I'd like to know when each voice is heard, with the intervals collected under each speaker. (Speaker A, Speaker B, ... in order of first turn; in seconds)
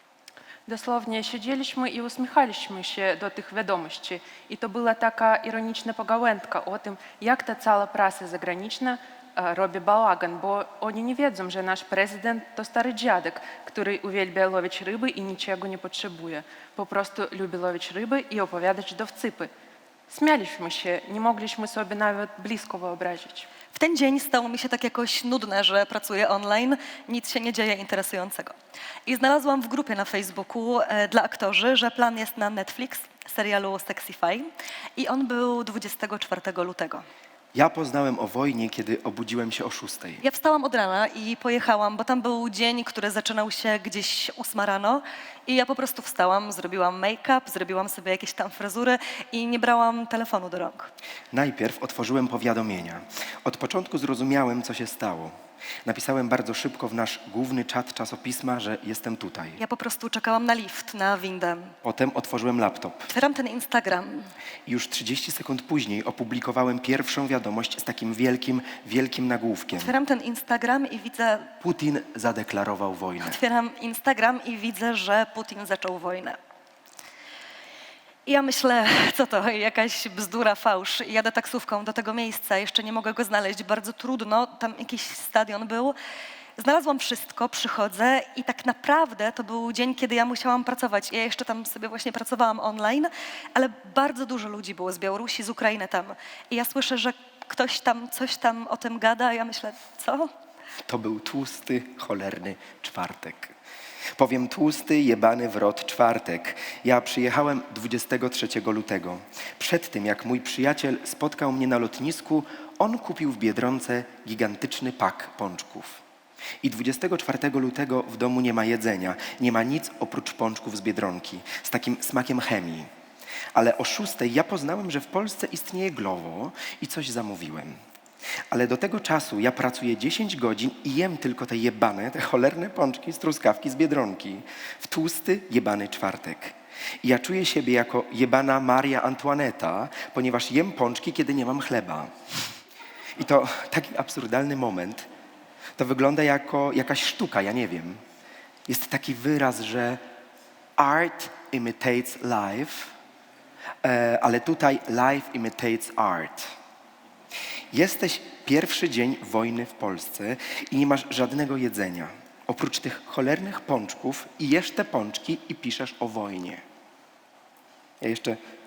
Speaker A: 0.7-19.5, 20.1-23.5
Speaker B: 23.7-28.5, 29.1-37.0, 40.2-50.9, 59.6-61.7, 63.1-64.3, 69.7-71.5, 73.2-76.4, 78.2-85.9, 86.6-100.3
Speaker C: 37.5-40.2, 51.3-59.6, 61.8-63.1, 64.7-69.9, 71.6-73.4, 100.9-103.5, 104.2-116.0, 116.6-122.9, 123.5-127.8, 128.5-142.1, 143.2-145.1, 145.8-148.0, 148.7-150.0, 150.8-152.9, 153.8-156.5, 157.7-166.6, 168.0-168.4